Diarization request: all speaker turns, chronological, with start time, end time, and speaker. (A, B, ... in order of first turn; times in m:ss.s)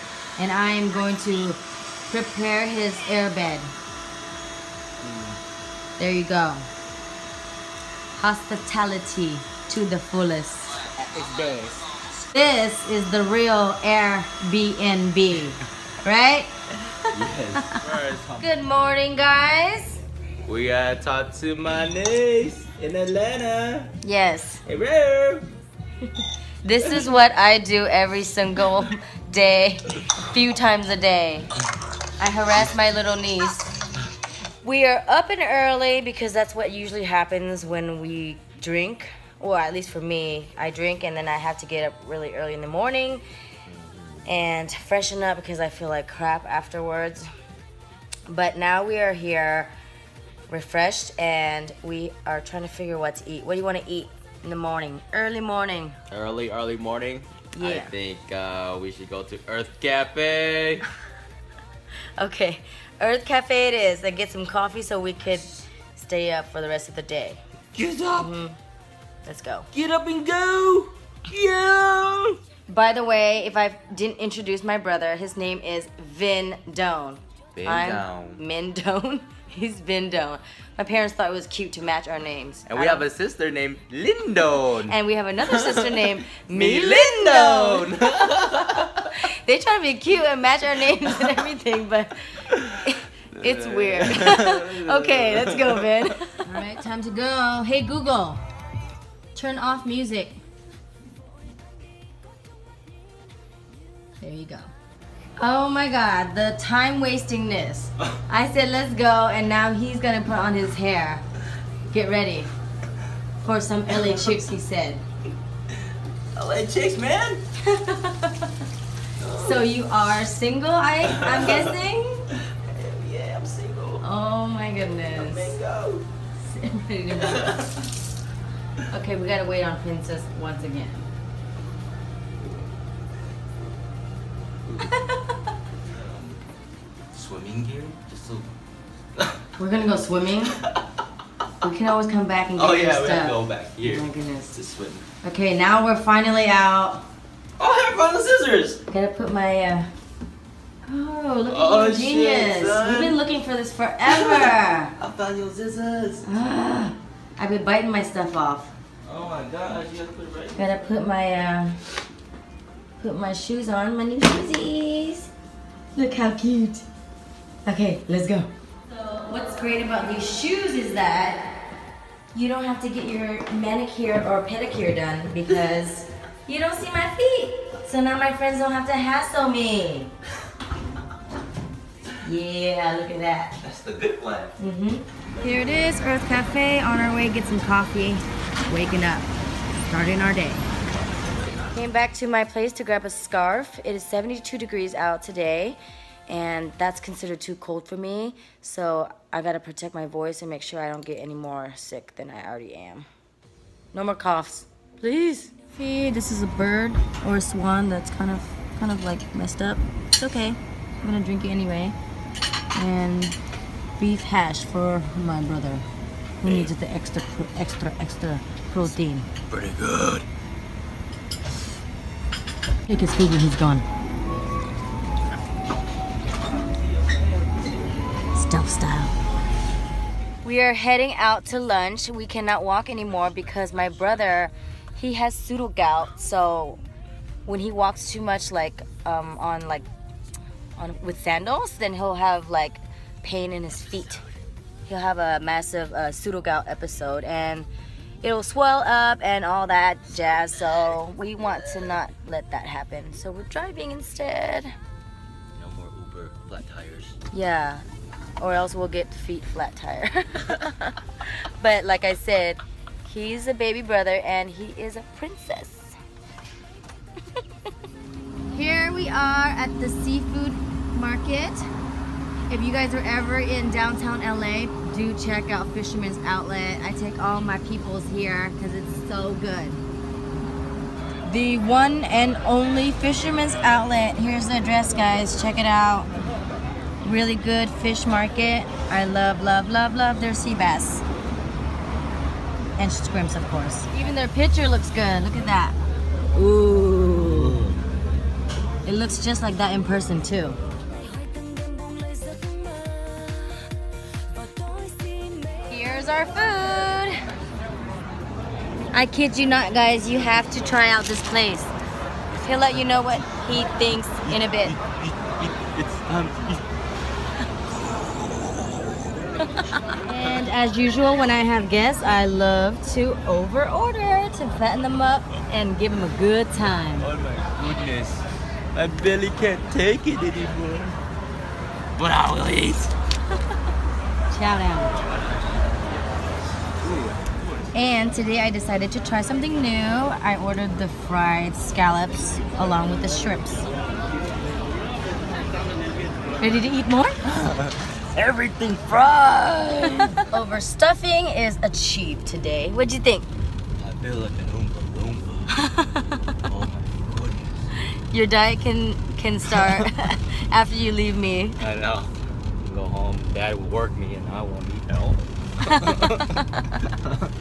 0:00.4-0:03.7 A
0:05.0-0:05.4 B
0:06.0-0:06.7 A
0:08.1-0:10.8 A
0:11.0-0:11.8 B
0:12.3-0:16.5 A
0:17.1-0:18.5 B
0:18.4-0:20.0 A
0:20.4-0:23.9 B
0:24.0-0:24.6 A
0:24.6-0:25.4 B
0:26.6-0:31.5 A
0:32.2-0:33.7 A
0:34.6-0:43.2 A
0:43.7-0:44.3 B
0:44.2-0:47.3 A
0:48.3-0:49.7 A
0:50.5-0:56.0 A
0:56.1-1:00.8 B
0:57.5-0:57.9 A
1:02.2-1:07.4 A
1:07.7-1:08.3 B
1:08.1-1:08.6 A
1:09.2-1:09.7 A
1:09.7-1:12.4 B
1:12.7-1:23.0 A
1:17.6-1:18.4 B
1:22.7-1:29.1 B
1:24.8-1:27.9 A
1:29.0-1:38.4 A
1:32.5-1:36.1 B
1:39.3-1:40.4 A
1:44.2-1:44.7 A
1:45.4-1:51.2 A
1:51.9-1:52.5 A
1:53.4-1:55.0 A
1:53.9-1:54.4 B
1:56.3-1:57.4 B
1:57.6-1:58.5 A
1:59.2-1:59.6 B
1:59.3-2:02.2 A
2:01.0-2:01.7 B
2:02.5-2:04.0 B
2:04.0-2:05.6 A
2:05.2-2:06.1 B
2:06.4-2:07.7 A
2:07.2-2:07.7 B
2:08.9-2:11.1 A
2:14.7-2:14.9 B
2:14.9-2:15.3 A
2:15.9-2:16.4 B
2:17.1-2:18.5 B
2:19.6-2:20.6 A
2:21.6-2:24.5 A
2:22.6-2:25.0 B
2:25.2-2:27.1 A
2:27.6-2:28.8 B
2:28.9-2:29.9 A
2:30.8-2:34.9 A
2:31.5-2:33.2 B
2:34.1-2:36.3 B
2:36.2-2:38.7 A
2:39.0-2:40.9 B
2:40.6-2:41.8 A
2:43.0-2:45.3 A
2:45.9-2:46.8 A
2:47.6-2:51.5 A
2:52.3-3:00.1 A
3:02.2-3:03.5 A
3:03.6-3:04.5 B
3:04.6-3:09.3 A
3:09.8-3:10.7 A
3:11.7-3:23.0 A
3:23.9-3:32.0 A
3:32.7-3:33.4 A
3:34.0-3:35.8 A
3:36.4-3:39.3 A
3:36.4-3:36.7 B
3:39.5-3:40.2 B
3:42.9-3:43.8 A
3:46.6-3:47.9 B
3:48.3-3:49.1 A
3:50.4-3:56.8 A
3:57.4-3:59.9 A
4:00.8-4:04.2 A
4:04.9-4:07.7 A
4:08.2-4:14.7 A
4:15.6-4:17.2 B
4:17.3-4:17.8 A
4:18.4-4:21.0 A
4:21.6-4:25.9 A
4:28.5-4:31.7 A
4:32.5-4:39.8 A
4:41.2-4:46.1 A
4:47.0-4:51.0 A
4:52.8-4:55.8 A
4:56.3-4:57.6 A
4:57.3-4:57.8 B
4:58.8-5:00.6 A
5:01.1-5:03.2 A
5:04.5-5:07.1 A
5:08.9-5:11.7 A
5:12.4-5:14.8 A
5:14.3-5:16.6 B
5:19.9-5:27.1 A
5:27.0-5:31.0 B
5:32.0-5:32.9 B
5:34.3-5:35.0 A
5:36.8-5:37.6 B
5:37.7-5:43.7 A
5:46.4-5:47.2 A
5:47.3-5:50.2 B
5:50.2-5:53.3 A
5:53.8-5:55.6 B
5:55.5-5:56.1 A
5:56.4-5:57.6 B
5:58.1-6:01.6 A
5:59.5-5:59.8 B
6:01.6-6:02.1 B
6:02.6-6:07.2 B